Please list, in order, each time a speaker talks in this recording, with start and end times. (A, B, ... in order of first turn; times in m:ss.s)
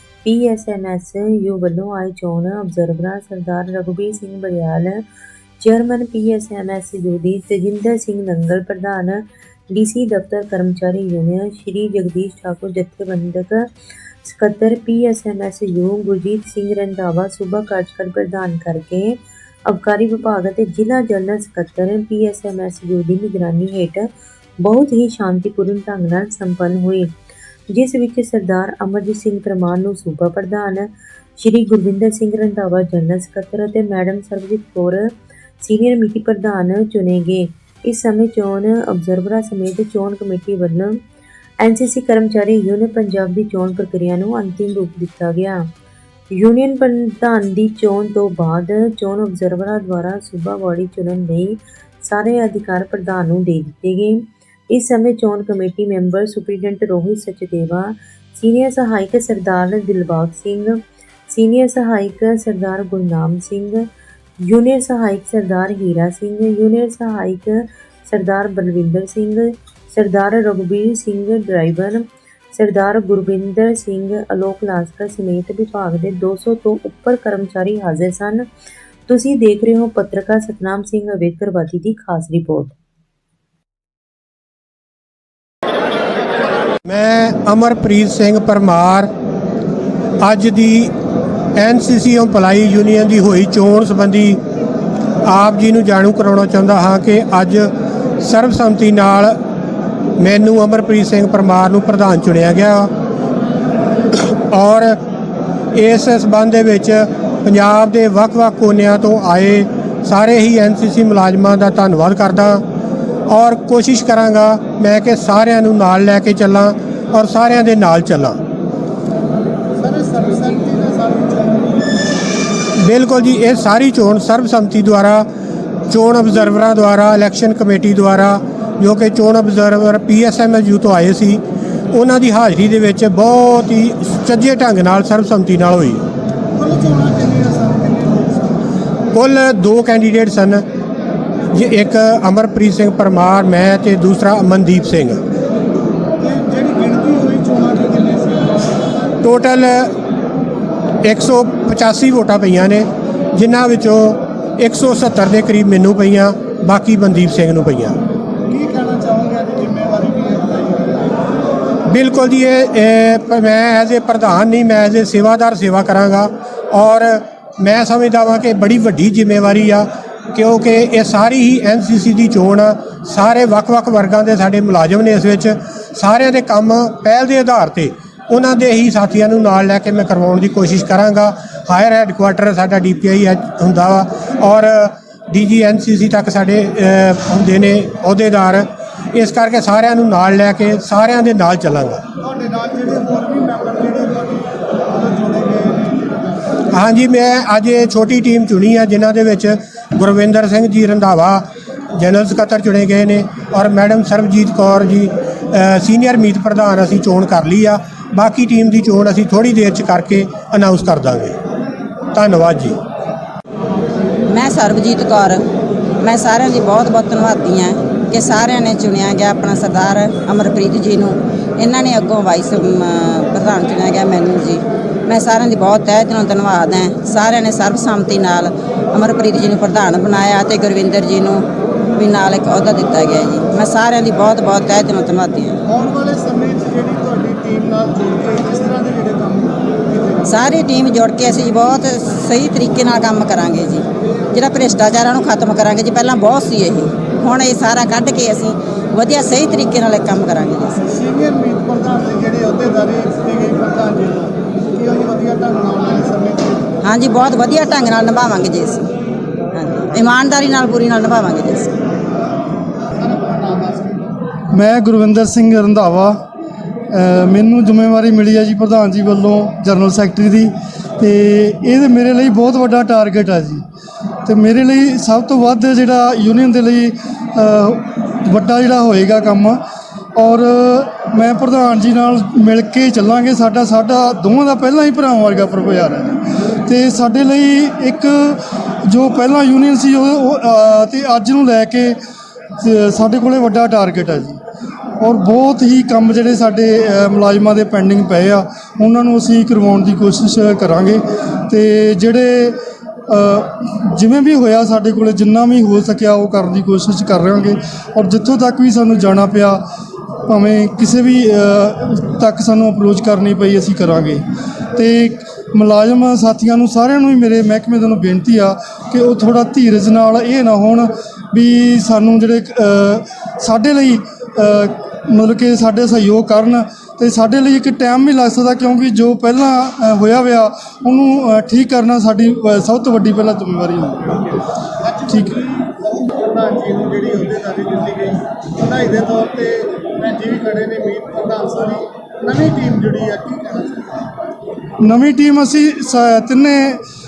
0:00.2-0:05.0 A
0:05.6-0:13.6 A
0:14.2-0:24.1 A
0:24.6-0:27.1 A
0:27.7-0:35.1 A
0:35.6-0:41.0 A
0:41.6-0:45.6 A
0:46.3-1:00.8 A
1:01.3-1:03.8 A
1:04.4-1:18.4 A
1:19.1-1:22.7 A
1:26.8-1:29.1 B
1:30.2-1:30.9 B
1:31.6-1:34.4 B
1:35.2-1:39.4 B
1:40.2-1:42.9 B
1:44.5-1:45.0 B
1:45.7-1:52.6 B
1:53.3-1:58.4 B
1:59.8-2:02.0 C
2:02.8-2:05.3 B
2:05.9-2:16.0 B
2:16.5-2:18.5 C
2:19.1-2:20.6 B
2:21.5-2:25.2 B
2:26.2-2:28.8 C
2:29.2-2:29.9 B
2:31.0-2:38.0 B
2:38.5-2:41.1 C
2:41.9-3:12.0 B
3:12.2-3:16.4 C
3:16.7-3:31.4 B
3:32.1-3:32.8 B
3:34.3-3:35.4 D
3:36.0-3:55.6 D
3:55.7-4:00.4 C
4:00.2-4:10.8 D
4:10.9-4:16.6 C
4:16.8-4:18.8 D
4:19.5-4:21.7 D
4:23.0-4:24.1 C
4:24.5-4:26.2 E
4:26.9-4:33.6 E
4:34.2-4:39.6 E
4:40.2-4:52.0 E
4:52.6-4:54.4 E
4:55.0-5:09.6 E
5:10.3-5:34.3 E
5:34.8-5:44.0 C
5:44.8-5:46.8 E